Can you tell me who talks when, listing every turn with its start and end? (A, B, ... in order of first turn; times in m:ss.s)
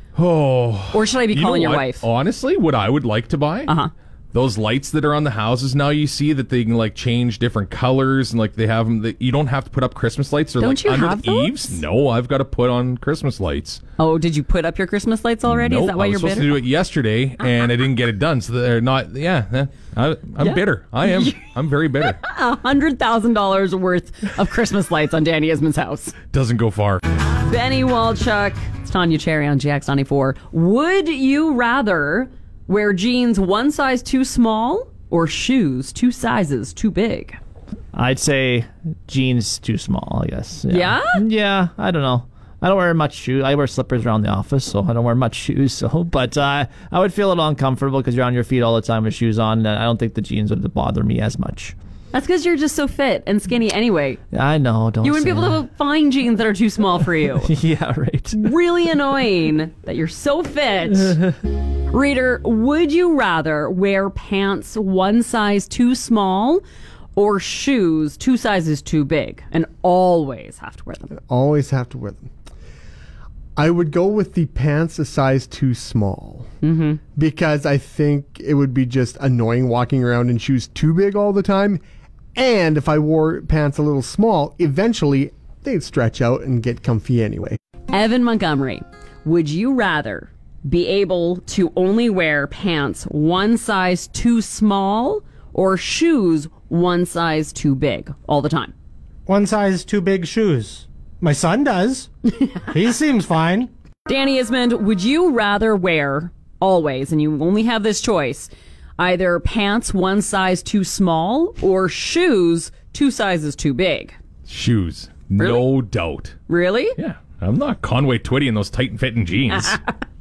0:00.1-0:03.7 A
0:00.9-0:02.0 B
0:04.3-0:13.8 A
0:10.6-0:11.8 B
0:14.0-0:16.6 B
0:15.5-0:22.2 A
0:20.4-0:21.4 B
0:22.0-0:26.1 B
0:26.3-0:27.0 A
0:27.2-0:37.4 B
0:37.9-0:51.7 C
0:40.7-0:41.2 B
0:52.1-0:54.2 B
0:54.3-0:55.6 C
0:55.0-0:57.5 B
0:57.4-0:58.4 C
0:58.3-1:01.2 B
1:01.9-1:06.6 B
1:07.1-1:11.1 B
1:11.3-1:12.3 D
1:13.6-1:16.4 D
1:16.6-1:17.0 B
1:17.1-1:21.8 D
1:22.3-1:27.6 D
1:27.9-1:38.7 B
1:39.3-1:42.1 E
1:42.7-1:43.7 E
1:44.1-1:54.2 B
1:54.5-1:56.4 A
1:55.4-1:55.7 B
1:56.5-1:57.0 B
1:57.0-1:59.8 A